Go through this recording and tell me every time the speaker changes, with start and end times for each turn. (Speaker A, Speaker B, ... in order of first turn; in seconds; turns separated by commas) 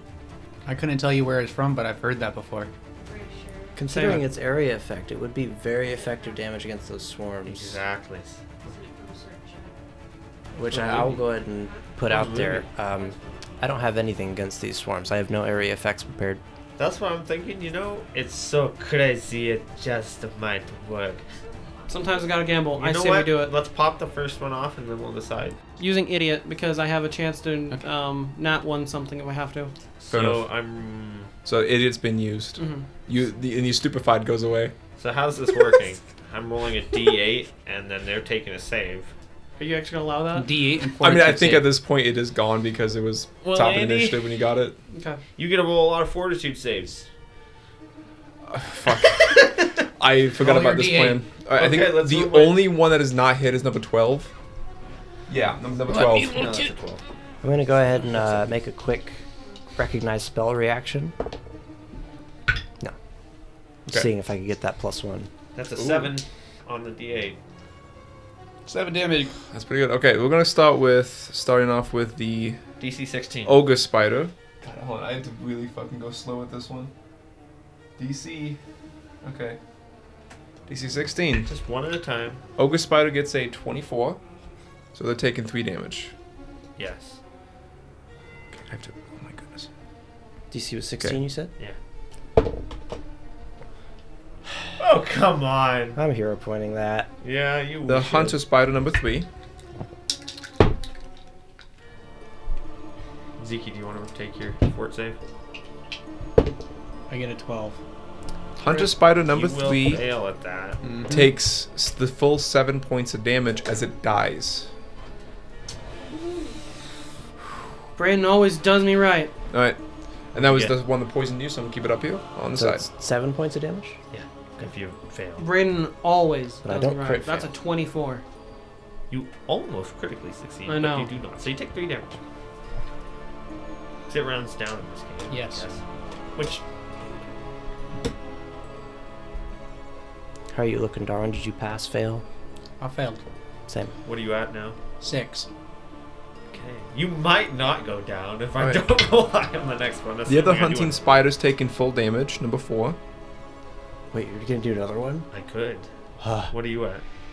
Speaker A: 0.7-2.7, Speaker B: 2.9-4.0, Speaker C: 3.8-7.8, Speaker D: 3.9-4.2, Speaker B: 5.8-6.4, Speaker E: 7.5-8.4, Speaker B: 8.6-9.8, Speaker C: 10.5-16.4, Speaker E: 10.7-11.2, Speaker B: 11.3-11.9, Speaker E: 12.1-12.7, Speaker B: 12.9-13.5, Speaker E: 16.8-21.2, Speaker B: 21.3-22.4, Speaker D: 21.9-23.5, Speaker E: 22.7-25.6, Speaker D: 25.8-29.7, Speaker E: 30.0-31.3, Speaker F: 30.1-30.4, Speaker F: 31.4-34.7, Speaker D: 32.6-32.9, Speaker E: 35.0-39.1, Speaker D: 39.6-40.5, Speaker A: 40.3-41.7, Speaker F: 41.0-44.8, Speaker E: 43.4-44.3, Speaker D: 44.9-45.2, Speaker E: 45.4-47.1, Speaker F: 48.5-54.3, Speaker E: 49.0-49.7, Speaker A: 50.4-51.2, Speaker E: 51.5-52.7, Speaker F: 55.3-56.5, Speaker A: 55.9-56.7, Speaker E: 56.3-57.0, Speaker C: 57.4-59.2, Speaker C: 59.8-61.1, Speaker C: 63.9-65.3, Speaker E: 65.5-67.4, Speaker F: 65.8-66.1, Speaker A: 68.7-69.3, Speaker F: 69.5-72.6, Speaker E: 72.8-73.6, Speaker F: 73.4-76.9, Speaker F: 78.0-78.6, Speaker F: 79.2-79.6, Speaker F: 80.7-81.5, Speaker E: 81.5-82.4, Speaker F: 82.6-84.2, Speaker F: 84.9-86.1, Speaker E: 86.8-87.2, Speaker F: 88.5-89.7, Speaker C: 90.5-91.5, Speaker E: 94.8-96.0, Speaker C: 96.0-97.1, Speaker E: 97.2-98.4, Speaker F: 97.8-99.3, Speaker E: 103.4-105.2, Speaker A: 107.1-107.8, Speaker F: 108.6-110.0, Speaker E: 109.3-110.8, Speaker A: 110.8-111.3, Speaker F: 111.1-114.7, Speaker D: 118.0-119.3, Speaker F: 119.5-119.8, Speaker F: 120.3-122.8, Speaker E: 120.3-120.8, Speaker C: 122.5-124.0, Speaker E: 124.1-125.5, Speaker D: 125.4-128.2, Speaker C: 126.6-127.4, Speaker F: 127.0-127.4, Speaker E: 129.1-132.2, Speaker D: 130.7-131.1, Speaker E: 134.1-135.8, Speaker A: 135.3-135.7, Speaker E: 136.3-136.6, Speaker C: 140.5-142.2, Speaker A: 142.8-143.2, Speaker C: 143.7-143.9, Speaker E: 144.0-144.8, Speaker A: 145.0-145.5, Speaker E: 146.5-151.1, Speaker F: 148.6-148.8, Speaker F: 150.3-153.0, Speaker C: 154.1-155.3, Speaker E: 155.3-155.9, Speaker C: 156.2-156.5, Speaker E: 156.5-157.0